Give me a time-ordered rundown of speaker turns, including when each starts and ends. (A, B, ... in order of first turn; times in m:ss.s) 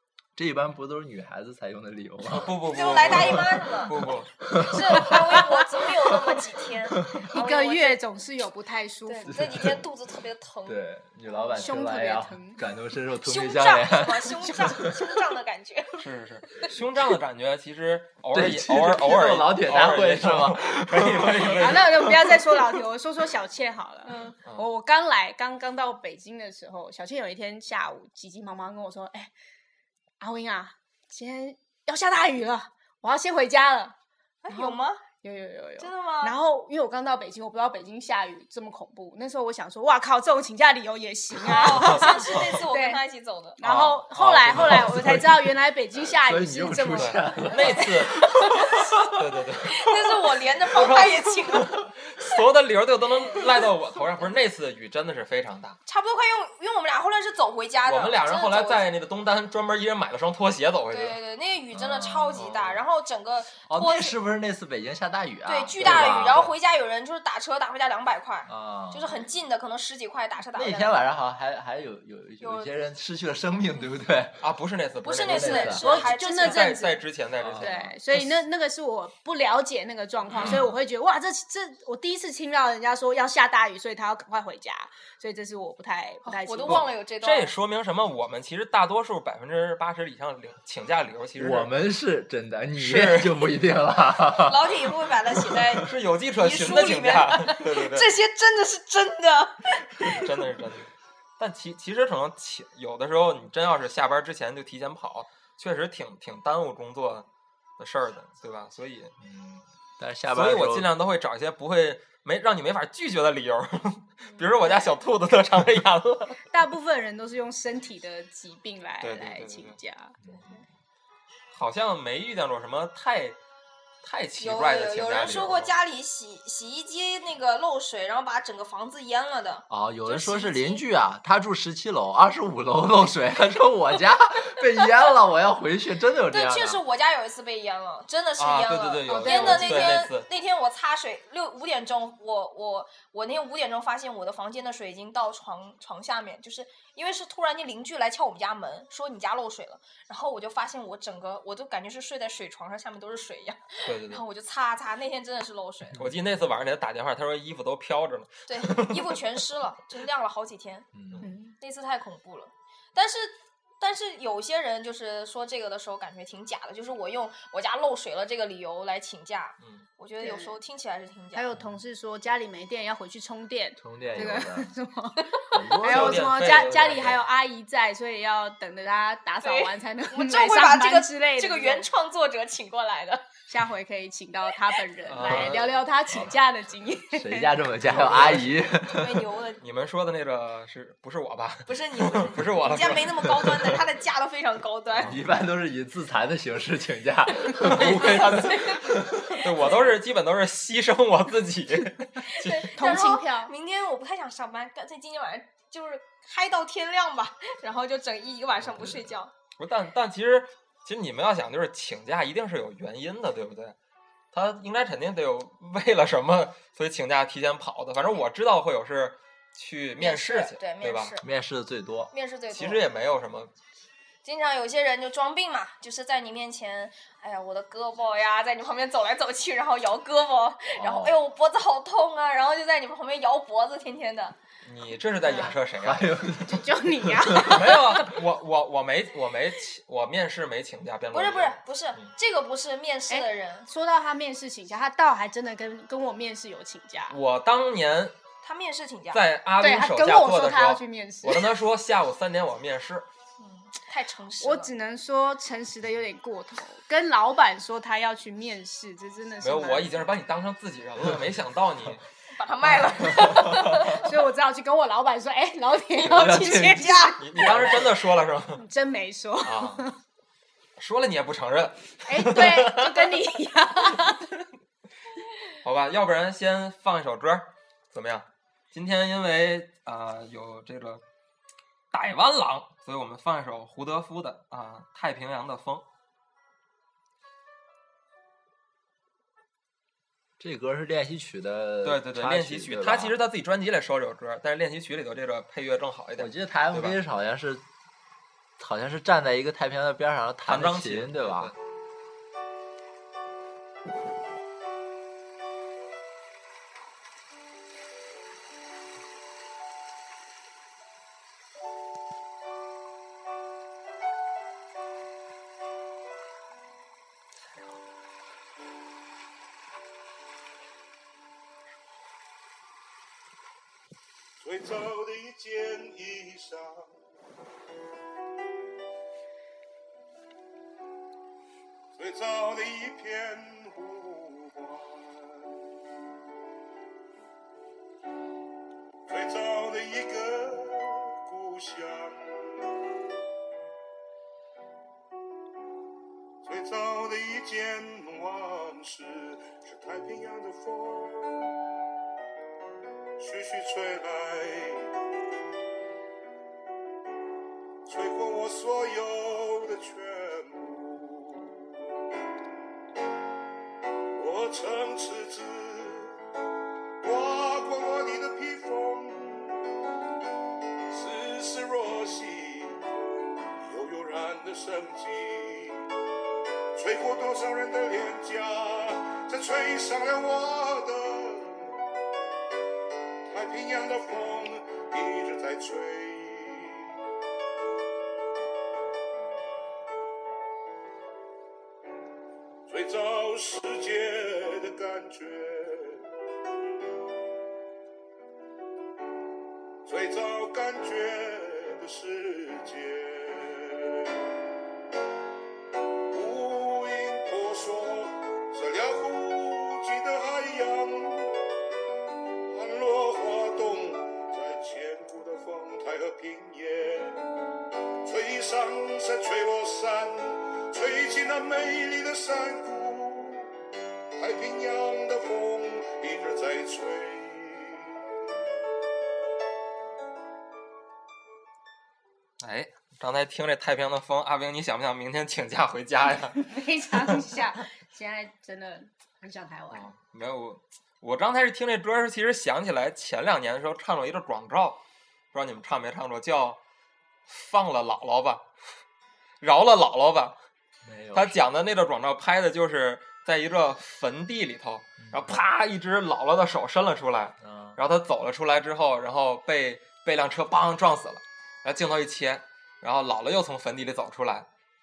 0:00.4-0:05.2 A
0:02.3-0:04.4 B
0:02.7-0:04.0 C
0:04.6-0:08.0 C
0:07.3-0:09.3 D
0:09.1-0:10.8 C
0:09.3-0:09.9 A
0:10.7-0:15.1 A
0:11.4-0:11.8 C
0:11.6-0:12.6 D
0:13.2-0:16.0 C
0:16.0-0:22.1 B
0:18.3-0:22.4 A
0:21.6-0:29.3 D
0:30.2-0:34.0 D
0:34.4-0:35.0 C
0:34.5-0:43.0 D
0:35.8-0:36.4 C
0:41.5-0:43.6 C
0:43.6-0:47.3 D
0:43.6-0:45.2 B
0:44.5-0:45.2 A
0:46.2-0:49.1 A
0:47.0-0:48.3 B
0:49.1-0:49.9 B
0:49.7-0:51.7 C
0:50.7-0:55.8 B
0:55.9-0:58.9 C
0:57.9-1:01.2 B
1:00.9-1:04.2 C
1:01.7-1:02.5 A
1:02.3-1:02.8 B
1:03.7-1:06.6 A
1:05.5-1:11.0 C
1:05.8-1:06.5 B
1:08.5-1:09.2 A
1:10.6-1:14.4 A
1:12.4-1:12.7 C
1:14.4-1:18.3 B
1:15.0-1:16.8 C
1:15.2-1:15.9 A
1:15.8-1:17.0 D
1:17.4-1:17.9 A
1:17.6-1:26.9 D
1:26.2-1:27.5 C
1:26.7-1:31.7 B
1:31.4-1:35.7 A
1:32.8-1:33.4 B
1:34.4-1:40.2 C
1:35.8-1:38.1 B
1:40.0-1:47.3 B
1:47.8-1:49.1 B
1:49.2-1:50.9 A
1:50.3-1:56.4 B
1:56.5-2:00.2 D
1:59.0-1:59.8 B
2:00.2-2:00.6 A
2:01.5-2:03.4 B
2:04.0-2:05.7 B
2:04.4-2:10.8 C
2:09.7-2:16.8 A
2:16.3-2:36.0 C
2:18.4-2:20.3 B
2:19.1-2:20.0 D
2:33.9-2:34.2 B
2:36.0-2:39.1 B
2:38.5-2:40.9 C
2:41.0-2:41.2 A
2:41.2-2:41.5 D
2:41.6-2:51.4 C
2:50.2-2:50.5 D
2:51.3-3:01.9 D
2:53.8-2:54.7 A
2:55.5-2:57.1 A
2:55.8-2:57.2 B
2:59.4-3:03.2 C
3:03.5-3:07.6 D
3:05.1-3:05.7 B
3:05.2-3:05.6 A
3:07.1-3:09.3 A
3:07.9-3:08.5 B
3:08.9-3:09.6 C
3:09.6-3:13.5 B
3:11.7-3:15.2 C
3:13.2-3:13.5 A
3:14.9-3:15.2 B
3:15.0-3:19.5 A
3:17.6-3:18.9 B
3:18.0-3:18.8 C
3:19.4-3:23.0 B
3:22.4-3:29.3 C
3:22.8-3:23.5 D
3:29.6-3:33.8 B
3:34.3-3:41.2 B
3:40.0-3:41.3 C
3:41.2-3:42.1 A
3:42.1-3:42.8 C
3:42.5-3:43.5 B
3:44.2-3:54.4 C
3:50.7-3:51.2 A
3:54.6-3:56.1 B
3:55.3-3:55.5 D
3:55.8-3:57.8 A
3:56.4-3:58.0 D
3:57.5-4:01.6 B
4:01.1-4:03.7 C
4:03.1-4:07.2 D
4:07.1-4:08.2 B
4:08.4-4:09.2 C
4:09.1-4:13.1 B
4:09.6-4:11.5 D
4:13.4-4:14.7 C
4:14.4-4:20.1 D
4:19.4-4:22.0 B
4:22.3-4:24.0 C
4:23.0-4:23.4 B
4:23.2-4:23.8 A
4:24.0-4:27.2 D
4:26.0-4:27.8 A
4:26.6-4:27.2 C
4:27.2-4:28.6 B
4:28.6-4:29.9 D
4:29.4-4:29.8 B
4:30.8-4:33.1 B
4:32.1-4:34.3 D
4:35.6-4:41.0 B
4:41.9-4:45.8 B
4:50.4-4:53.2 A
4:51.8-4:57.0 B
4:56.2-4:57.6 A
4:58.6-5:01.5 A
5:00.5-5:01.6 B
5:24.4-5:27.0 E
5:32.0-5:35.6 E
5:39.1-5:42.7 E
5:46.4-5:51.5 E
5:53.2-5:54.9 E
5:57.9-6:01.6 E
6:04.1-6:06.2 E
6:07.0-6:09.6 E
6:10.9-6:12.8 E
6:13.7-6:15.9 E
6:16.7-6:21.8 E
6:23.3-6:26.9 E
6:32.7-6:36.1 E
6:39.8-6:44.2 E
6:46.1-6:51.4 E
6:52.5-6:57.2 E
6:58.0-7:03.5 E
7:04.2-7:08.0 E
7:12.4-7:16.5 B
7:16.4-7:19.9 D
7:19.7-7:24.8 B
7:25.3-7:26.6 B
7:27.3-7:28.4 B
7:29.4-7:30.4 B
7:30.8-7:31.4 A
7:31.1-7:44.5 B
7:35.0-7:35.4 A
7:37.4-7:37.8 A